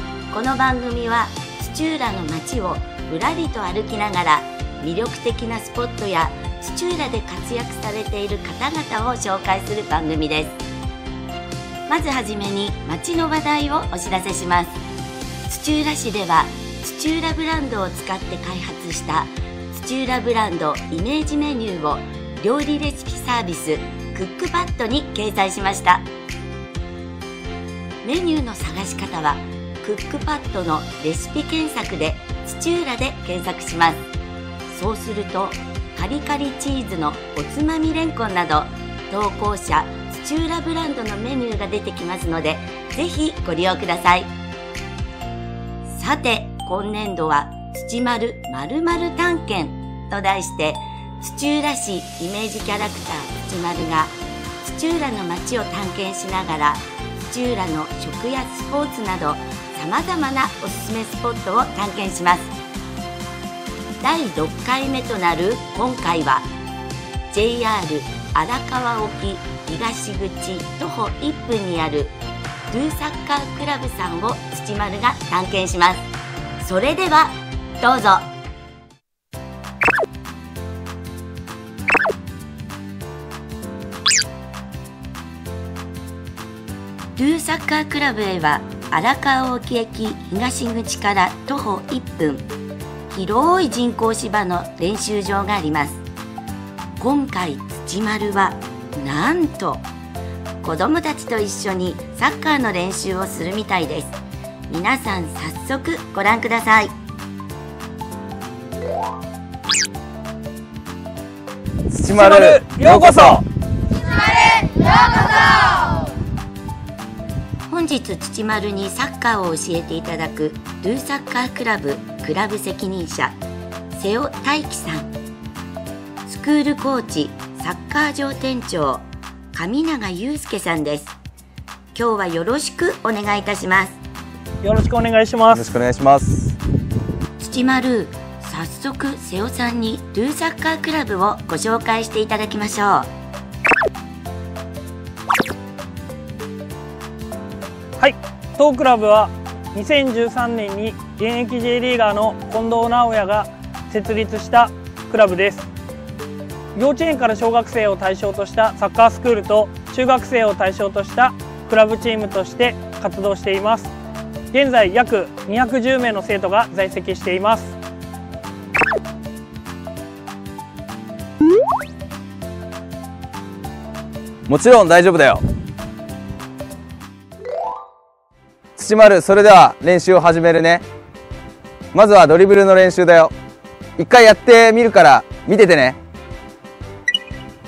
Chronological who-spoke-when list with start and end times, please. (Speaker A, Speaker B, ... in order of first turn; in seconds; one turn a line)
Speaker A: 0.3-10.6
Speaker A: 11.9-14.8
Speaker A: 15.5-26.1
Speaker A: 28.0-34.1
Speaker A: 34.7-44.3
Speaker A: 45.9-62.5
Speaker A: 64.0-66.5
Speaker A: 67.3-72.2
Speaker A: 72.7-76.1
Speaker A: 76.6-78.3
Speaker A: 87.2-92.5
Speaker A: 93.1-96.0
Speaker A: 97.0-99.9
Speaker A: 100.6-104.2
Speaker A: 104.7-107.0
Speaker B: 111.9-113.4
Speaker C: 112.1-113.4
Speaker A: 117.7-123.4
Speaker A: 123.9-125.1
Speaker A: 126.3-131.2
Speaker A: 131.9-134.0
Speaker C: 134.6-135.6
Speaker B: 135.5-136.6
Speaker A: 137.4-143.1
Speaker C: 148.0-155.7
Speaker C: 156.8-163.9
Speaker C: 164.5-167.7
Speaker B: 174.5-175.4
Speaker B: 178.8-180.8
Speaker B: 181.9-183.3
Speaker B: 184.0-186.0